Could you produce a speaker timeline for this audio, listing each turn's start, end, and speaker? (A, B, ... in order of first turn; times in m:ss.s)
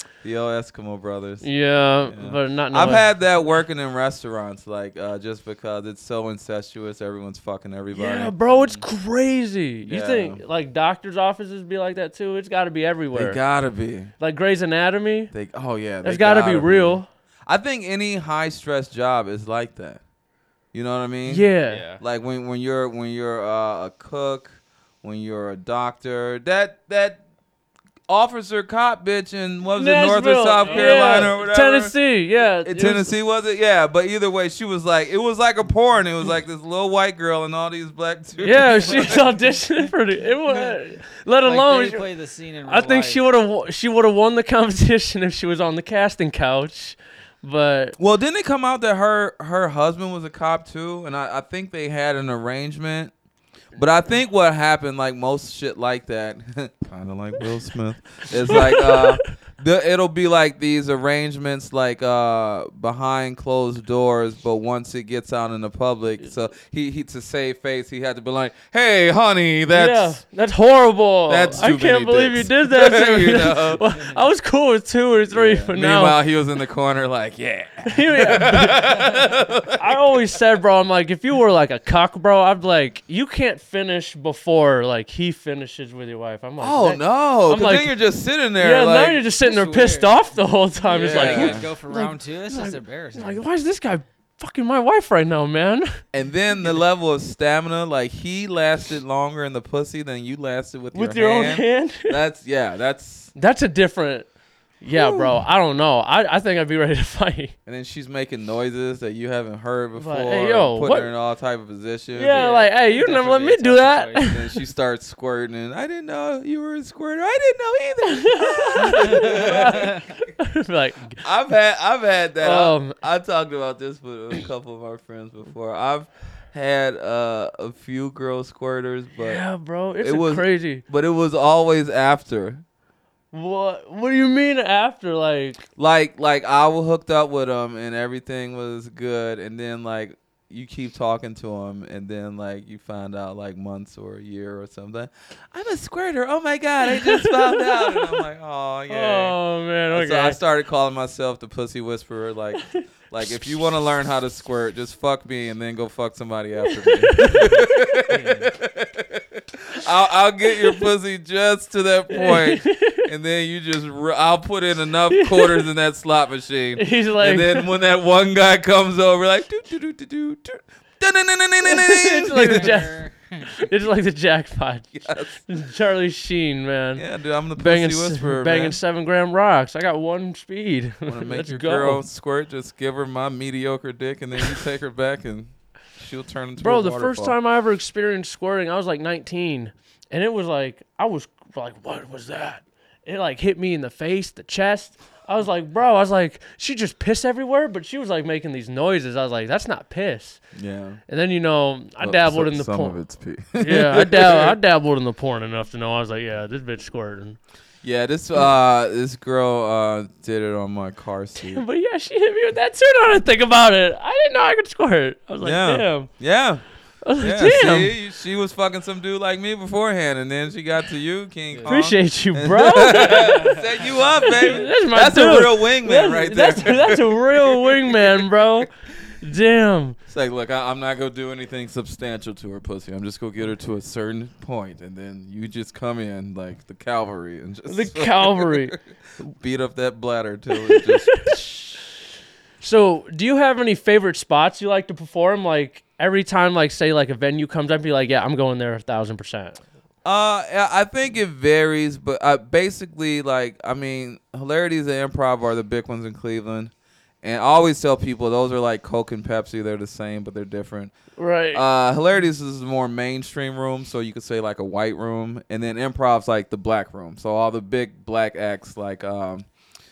0:00.2-0:01.5 A
0:01.4-0:03.1 B
0:02.0-0:08.8 A
0:07.9-0:13.4 B
0:09.8-0:10.4 A
0:13.1-0:14.1 A
0:14.2-0:15.3 B
0:15.3-0:20.0 A
0:16.0-0:17.1 B
0:20.7-0:21.5 A
0:21.2-0:21.8 B
0:21.7-0:22.0 C
0:22.0-0:27.2 A
0:28.1-0:31.9 A
0:29.7-0:33.1 B
0:30.6-0:31.3 C
0:32.6-0:39.2 A
0:38.4-0:42.0 B
0:38.9-0:39.4 C
0:40.4-0:40.8 C
0:41.4-0:43.2 C
0:42.7-0:48.0 B
0:48.0-0:53.1 A
0:53.8-1:10.2 A
0:58.5-0:59.2 B
1:09.7-1:16.2 B
1:11.3-1:13.8 A
1:13.8-1:14.2 C
1:15.3-1:20.0 A
1:17.8-1:19.1 B
1:19.7-1:28.0 B
1:26.6-1:29.2 A
1:28.6-1:36.0 B
1:29.3-1:30.3 C
1:30.8-1:33.4 C
1:31.0-1:31.7 A
1:36.1-1:43.3 A
1:40.9-1:42.2 B
1:43.4-1:44.3 B
1:44.8-1:47.5 B
1:44.9-1:45.4 A
1:47.6-1:52.4 A
1:50.0-1:51.1 B
1:52.1-1:54.6 B
1:52.3-1:54.3 C
1:54.2-2:00.2 A
1:58.0-2:01.2 B
1:58.8-2:00.0 C
2:01.2-2:09.4 A
2:02.4-2:03.0 B
2:09.2-2:10.8 B
2:10.0-2:12.6 A
2:13.3-2:15.6 B
2:15.8-2:29.4 A
2:26.9-2:28.2 B
2:28.9-2:30.4 B
2:29.9-2:52.8 A
2:36.7-2:37.3 B
2:37.2-2:38.5 C
2:42.1-2:43.1 B
2:45.1-2:45.7 B
2:46.8-2:47.7 B
2:51.6-2:53.0 B
2:52.3-2:53.7 C
2:53.6-2:57.0 B
2:54.9-2:55.4 A
2:57.0-2:58.8 A
2:57.6-3:02.0 B
3:01.0-3:07.4 A
3:06.6-3:20.4 B
3:20.5-3:21.0 A
3:21.1-3:23.0 B
3:22.0-3:24.6 A
3:23.6-3:27.4 B
3:27.8-3:31.6 A
3:31.4-3:36.1 B
3:35.4-3:36.6 A
3:37.0-3:37.9 B
3:37.2-3:48.3 A
3:41.5-3:41.8 C
3:41.7-3:43.6 B
3:42.9-3:44.6 C
3:44.2-3:50.0 B
3:50.1-3:58.8 A
3:57.7-3:58.8 B
3:59.4-4:01.6 A
4:00.6-4:01.5 B
4:02.6-4:09.6 B
4:10.0-4:20.9 A
4:21.2-4:21.6 B
4:21.5-4:29.4 A